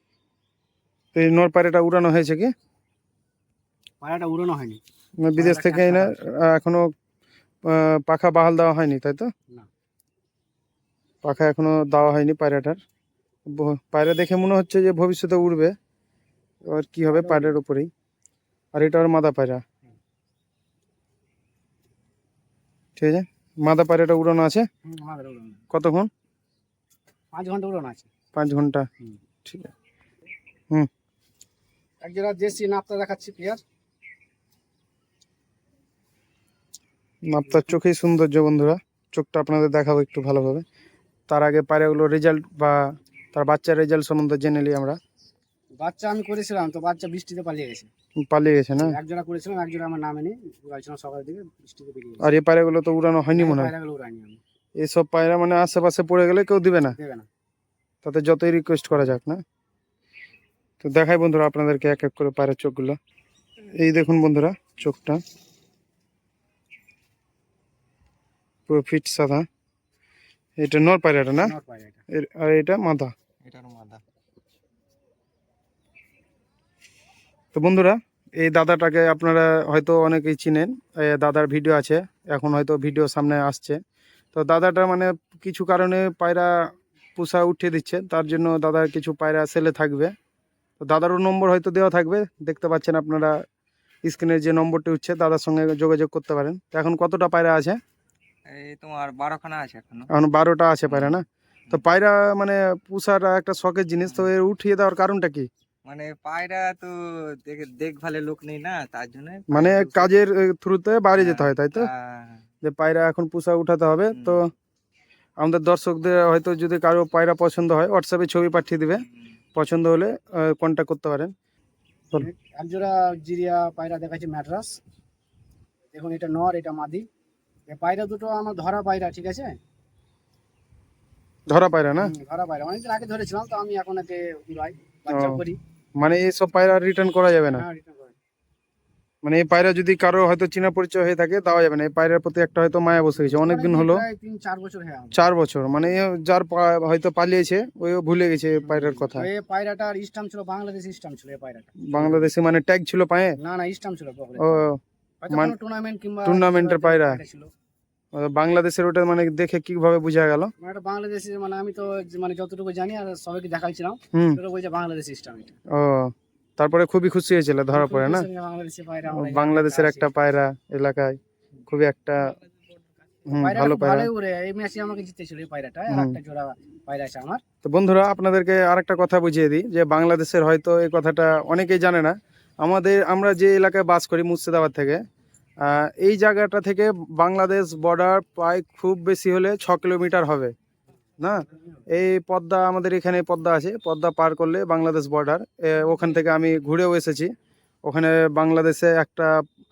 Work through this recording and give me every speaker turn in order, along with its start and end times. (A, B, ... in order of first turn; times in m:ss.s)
0:01.1-0:02.5 A
0:04.0-0:04.8 B
0:05.2-0:06.9 A
0:05.4-0:06.2 B
0:07.6-0:09.3 A
0:11.2-0:12.8 A
0:13.5-0:15.8 A
0:16.7-0:17.9 A
0:17.1-0:17.6 B
0:18.7-0:19.6 A
0:23.0-0:24.7 A
0:24.8-0:25.6 B
0:25.7-0:26.1 A
0:27.3-0:28.1 B
0:28.3-0:28.9 A
0:29.4-0:29.7 A
0:32.0-0:33.6 B
0:37.3-0:40.6 A
0:41.3-0:45.0 A
0:45.8-0:47.9 B
0:48.2-0:49.0 A
0:48.8-0:52.3 B
0:52.2-0:53.7 A
0:53.4-0:54.4 B
0:54.8-0:57.0 A
0:56.9-0:57.3 B
0:58.0-0:59.4 A
1:00.8-1:03.0 A
1:03.8-1:05.2 A
1:08.7-1:09.5 A
1:10.6-1:11.5 A
1:11.4-1:12.0 B
1:12.1-1:13.1 A
1:13.4-1:14.0 C
1:17.5-1:23.8 A
1:24.3-1:30.1 A
1:30.8-1:33.4 A
1:34.0-1:37.8 A
1:38.5-1:40.1 C
1:40.1-1:45.5 A
1:40.9-1:41.8 C
1:45.8-1:50.1 C
1:49.5-1:51.9 A
1:51.2-1:52.4 C
1:52.6-1:54.5 A
1:54.1-1:54.4 C
1:55.4-2:01.3 A
1:59.0-1:59.3 C
2:02.1-2:04.8 B
2:05.9-2:07.1 B
2:07.7-2:09.6 B
2:11.5-2:12.1 A
2:12.0-2:15.6 B
2:15.1-2:15.4 A
2:16.0-2:17.7 A
2:17.5-2:18.2 B
2:19.2-2:24.0 A
2:23.2-2:25.3 B
2:25.1-2:29.3 A
2:28.6-2:32.3 B
2:31.8-2:33.4 A
2:33.4-2:34.6 B
2:34.4-2:35.6 A
2:35.2-2:37.5 B
2:36.2-2:37.2 A
2:38.1-2:40.5 A
2:40.6-2:45.6 B
2:44.1-2:44.4 A
2:45.7-2:48.3 A
2:47.7-2:50.1 B
2:49.1-2:52.4 A
2:53.3-2:57.4 B
2:53.3-2:54.1 A
2:55.9-2:56.2 A
2:57.6-3:05.0 A
3:05.6-3:10.5 A
3:11.2-3:17.3 A
3:11.5-3:11.8 B
3:17.8-3:19.4 A